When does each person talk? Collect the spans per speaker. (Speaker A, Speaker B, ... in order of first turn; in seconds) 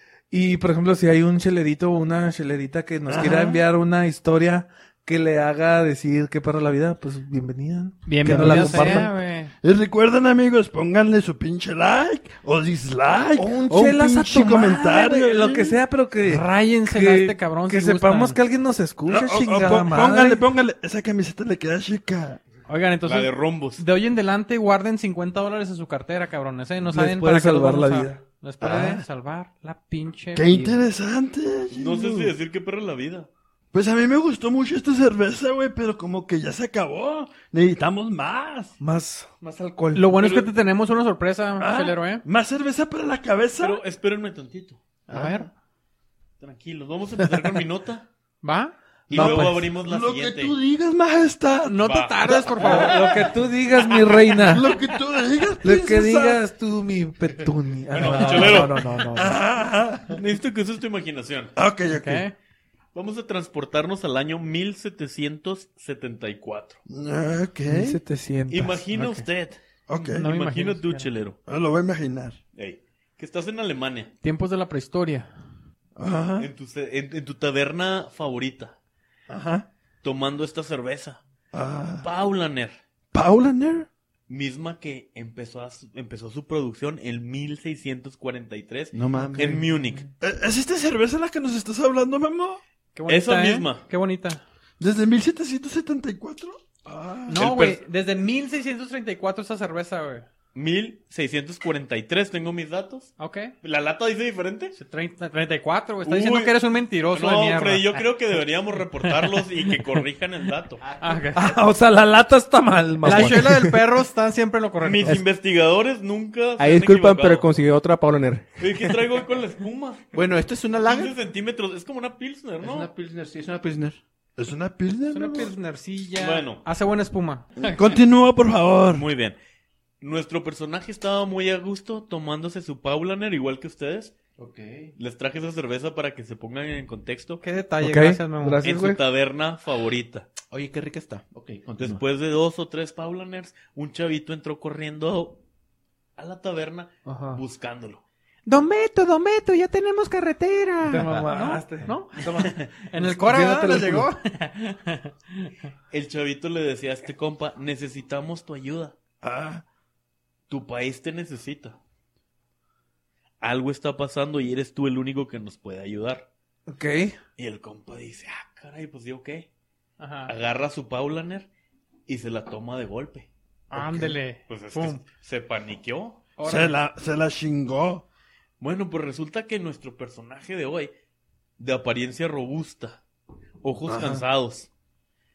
Speaker A: 0.3-9.1, 13.4-20.4, 26.9-28.2, 38.8-40.1, 49.1-49.7, 52.6-54.7, 55.6-59.4, 67.7-68.8, 111.3-113.8, 137.8-139.0, 150.8-154.1, 166.7-167.2
Speaker B: 3.1-3.6, 8.3-9.1, 9.6-15.8, 19.1-22.4, 28.6-29.1, 30.4-32.3, 33.7-38.8, 41.6-43.8, 45.1-45.5, 49.1-52.9, 54.5-56.4, 59.1-60.2, 61.6-62.3, 66.9-68.0, 69.9-70.3, 71.5-72.4, 76.0-76.5, 79.3-79.7, 81.5-82.1, 83.1-83.9, 88.9-89.5, 90.2-92.6, 94.8-97.4, 124.4-125.5, 127.6-129.1, 159.2-159.6, 173.7-174.1, 176.4-178.0, 183.9-184.2
Speaker C: 8.1-9.5, 16.2-18.4, 22.7-30.8, 39.9-42.2, 45.1-45.5, 48.4-48.8, 51.6-53.0, 61.9-62.3, 69.0-69.2, 70.1-71.1, 74.2-75.3, 92.9-94.4, 97.3-100.3, 103.2-103.5, 104.8-108.0, 109.0-109.8, 111.0-111.5, 113.0-115.2, 125.1-127.8, 137.4-138.6, 148.4-155.6, 170.0-170.3, 173.7-175.0, 176.4-176.8
Speaker D: 23.1-23.8, 31.7-33.3, 40.2-40.5, 43.6-44.8, 46.4-48.1, 49.1-50.5, 51.9-53.2, 57.9-58.8, 60.1-61.5, 62.9-66.8, 68.5-69.6, 70.1-71.4, 72.5-74.1, 76.4-78.8, 80.0-81.2, 82.0-82.8, 84.3-90.1, 93.1-93.8, 97.3-97.8, 100.5-104.8, 106.0-110.8, 114.8-117.5, 118.6-120.2, 120.8-122.9, 126.2-126.6, 128.9-129.4, 130.0-134.2, 135.0-137.4, 138.6-140.3, 141.8-145.4, 146.2-148.0, 155.9-158.9, 160.5-161.8, 163.4-166.3, 167.4-169.5, 170.3-171.5, 172.1-173.3, 174.5-176.2, 178.6-180.9, 181.6-183.0, 183.6-184.7
Speaker E: 89.1-89.6, 120.1-121.1, 122.6-124.0, 134.4-134.9, 140.5-142.0
Speaker F: 113.1-113.4, 116.6-118.6